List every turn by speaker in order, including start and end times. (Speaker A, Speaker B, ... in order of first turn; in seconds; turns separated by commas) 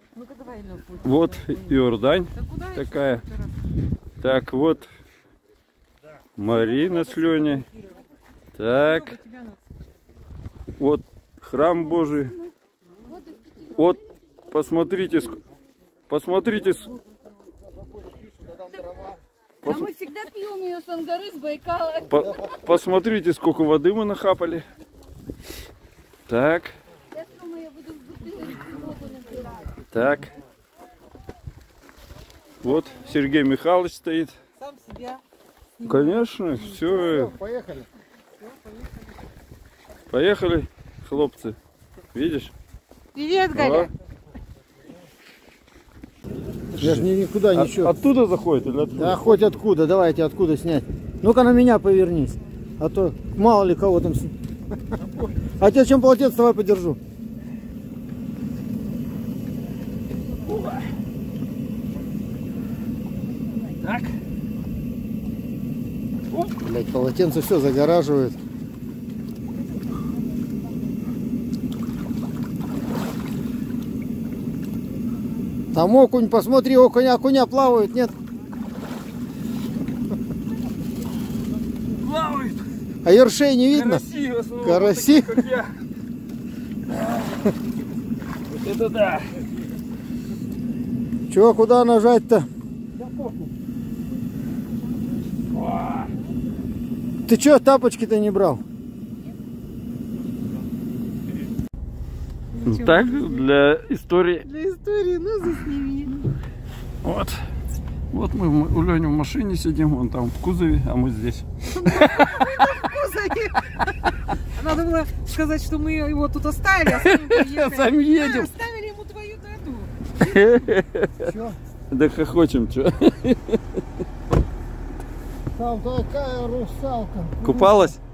Speaker A: 0.2-1.0, Speaker B: 1.0-3.2, Speaker A: 2.4-3.5, Speaker B: 4.2-4.9, Speaker B: 6.4-7.7, Speaker B: 8.5-9.2, Speaker A: 9.1-9.4, Speaker B: 10.8-12.4, Speaker B: 13.7-15.4, Speaker B: 16.1-16.9, Speaker B: 19.6-19.9, Speaker C: 19.7-22.1, Speaker B: 22.1-24.6, Speaker B: 26.3-26.8, Speaker C: 27.2-29.4, Speaker B: 29.9-30.3, Speaker B: 32.6-34.4, Speaker A: 34.7-35.2, Speaker B: 35.8-37.3, Speaker D: 37.0-37.9, Speaker B: 40.1-41.6, Speaker B: 42.1-42.5, Speaker A: 43.1-43.9, Speaker B: 43.5-43.9, Speaker D: 46.8-47.9, Speaker B: 46.8-49.5, Speaker D: 49.0-54.3, Speaker D: 55.5-57.0, Speaker D: 66.6-68.4, Speaker D: 75.7-78.1, Speaker B: 82.0-82.6, Speaker D: 83.0-84.0, Speaker B: 83.7-85.8, Speaker D: 84.6-85.5, Speaker B: 88.5-89.4, Speaker D: 91.3-92.5, Speaker D: 97.3-98.6, Speaker A: 102.5-103.4, Speaker B: 102.6-104.5, Speaker A: 104.5-106.3, Speaker B: 107.0-107.4, Speaker B: 108.1-112.5, Speaker A: 111.7-113.8, Speaker A: 114.5-120.1, Speaker B: 116.9-118.5, Speaker B: 120.1-121.3, Speaker D: 121.2-121.6, Speaker B: 121.9-123.8, Speaker D: 125.5-127.9, Speaker B: 127.4-128.0